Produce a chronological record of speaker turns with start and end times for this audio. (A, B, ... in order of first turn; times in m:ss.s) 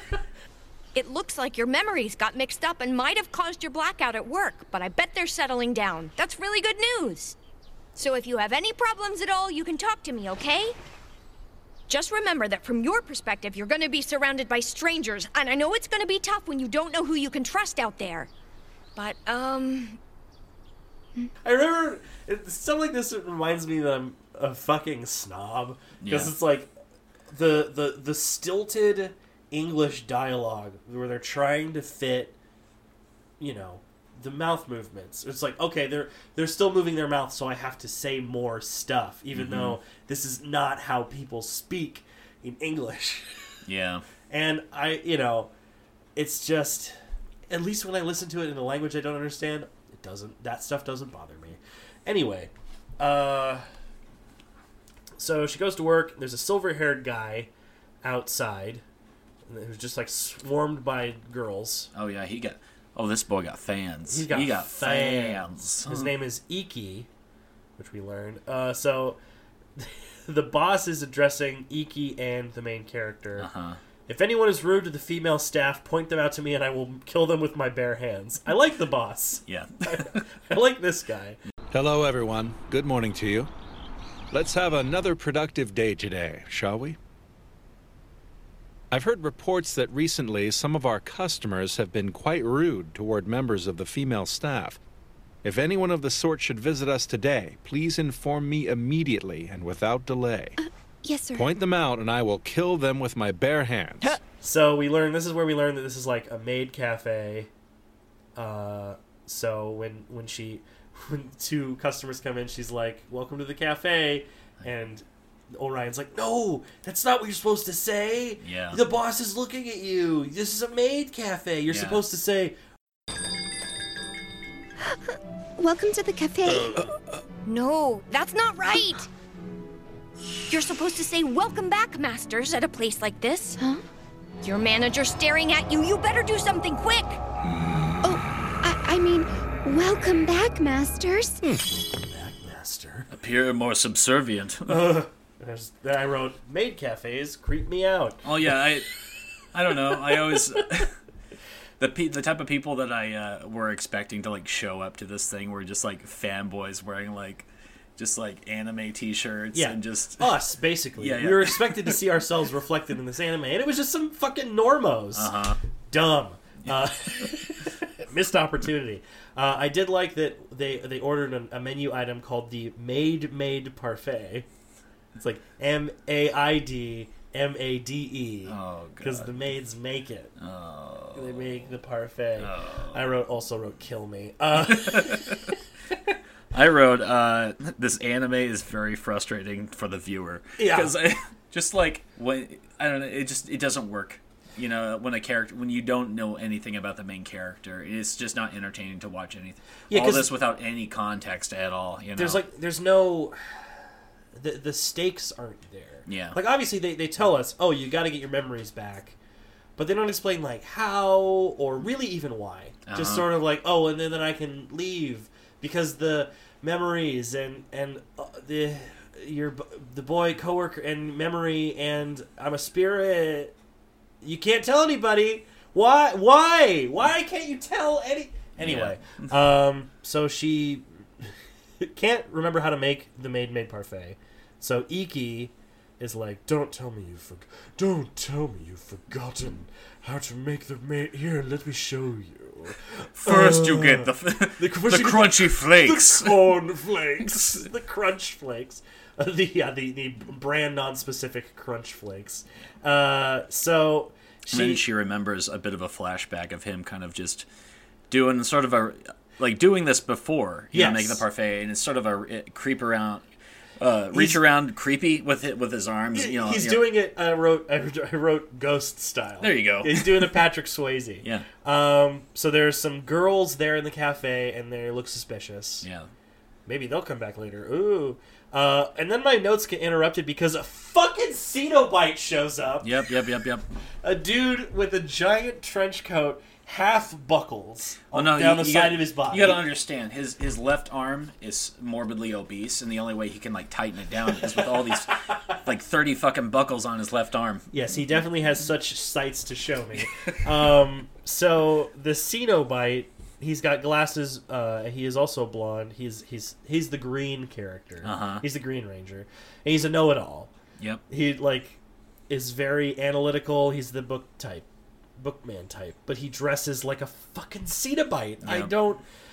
0:01.0-0:07.4 A
0:08.0-0:10.8 A
0:11.9-0:18.3 A
0:19.0-0:20.0 A
0:21.4-0:26.7 B
0:26.0-0:26.3 C
0:27.3-0:32.4 B
0:33.4-0:43.4 B
0:39.3-0:39.8 C
0:43.7-0:44.0 C
0:44.3-0:45.5 B
0:46.2-0:47.0 B
0:47.5-0:53.6 B
0:55.2-0:57.5 B
0:58.0-0:58.8 B
0:59.5-1:01.9 B
1:01.9-1:06.1 C
1:04.1-1:07.1 B
1:07.8-1:09.2 B
1:09.8-1:13.5 B
1:13.4-1:13.8 C
1:14.1-1:21.4 B
1:19.5-1:20.2 C
1:21.7-1:23.5 D
1:24.3-1:27.0 D
1:28.9-1:34.8 D
1:35.4-1:40.6 D
1:40.6-1:41.5 E
1:41.3-1:44.2 D
1:44.4-1:47.5 B
1:48.4-2:02.6 B
1:58.4-1:58.8 C
2:01.7-2:02.0 C
2:04.8-2:06.8 E
2:07.4-2:09.1 A
2:10.5-2:13.6 A
2:13.6-2:13.8 E
2:14.4-2:17.2 A
2:18.0-2:21.4 E
2:21.9-2:23.1 B
2:23.1-2:25.0 C
2:24.7-2:28.2 B
2:28.2-2:28.9 C
2:29.5-2:30.9 C
2:29.9-2:30.8 B
2:31.8-2:40.3 C
2:39.5-2:45.4 B
2:41.0-2:42.0 C
2:45.2-2:45.6 C
2:45.9-2:54.5 B
2:55.1-3:00.3 B
2:58.5-2:59.3 C
3:00.4-3:01.5 C
3:01.2-3:05.4 B
3:02.4-3:03.0 C
3:04.6-3:05.5 C
3:06.5-3:22.4 C
3:10.6-3:10.9 B
3:19.9-3:20.3 B
3:22.2-3:23.7 B
3:24.4-3:29.2 B
3:26.1-3:26.4 C
3:29.8-3:43.5 B
3:32.9-3:33.2 C
3:44.2-4:14.8 B
3:48.6-3:49.0 C
4:03.2-4:06.5 C
4:07.2-4:07.7 C
4:14.5-4:17.4 C
4:18.1-4:23.2 C
4:20.7-4:21.2 B
4:23.8-4:26.9 C
4:24.1-4:24.4 B
4:26.1-4:35.9 B
4:29.4-4:30.3 C
4:35.8-4:36.1 C
4:36.7-4:42.9 B
4:42.8-4:43.7 C
4:44.0-4:49.6 B
4:48.1-4:57.7 C
4:57.7-5:10.5 B
5:08.0-5:08.4 C
5:11.1-5:11.8 B
5:12.3-5:14.7 B
5:15.2-5:19.0 B
5:18.4-5:18.7 C